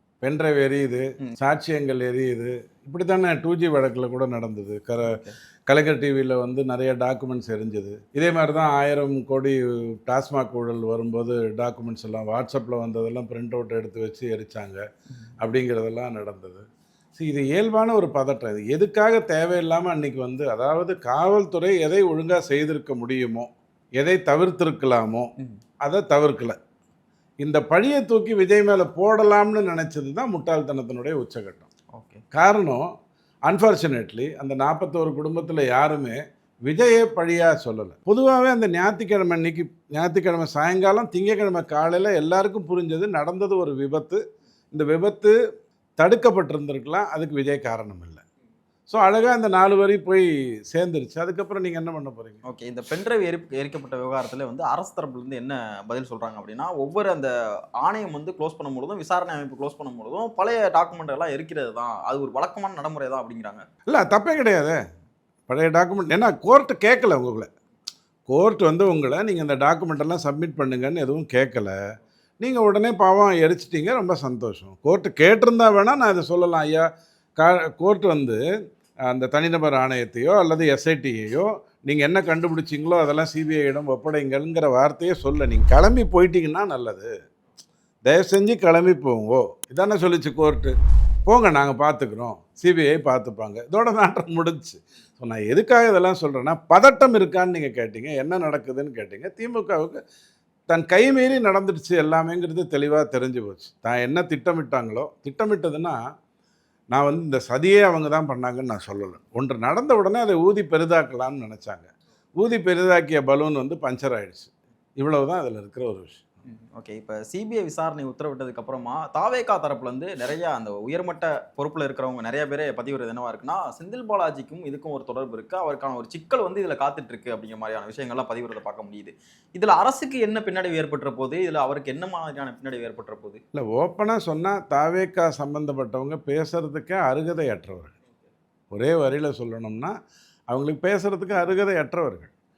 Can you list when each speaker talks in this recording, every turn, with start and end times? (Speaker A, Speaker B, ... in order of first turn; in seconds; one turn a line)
Speaker A: 0.2-14.8
Speaker B: 5.0-5.3
Speaker A: 15.4-25.3
Speaker A: 25.8-26.6
Speaker A: 27.4-31.6
Speaker B: 31.9-32.2
Speaker A: 32.3-32.9
Speaker A: 33.5-45.3
Speaker A: 46.0-48.2
Speaker A: 48.9-52.4
Speaker B: 52.4-63.6
Speaker A: 63.9-64.8
Speaker A: 65.5-67.5
Speaker A: 68.3-71.8
Speaker A: 72.4-76.9
Speaker A: 77.4-78.4
Speaker A: 79.1-87.1
Speaker A: 88.0-90.7
Speaker A: 91.2-100.0
Speaker A: 100.7-106.0
Speaker A: 106.9-116.2
Speaker B: 116.5-133.4
Speaker A: 133.5-137.9
Speaker A: 138.7-139.9
Speaker A: 140.5-142.3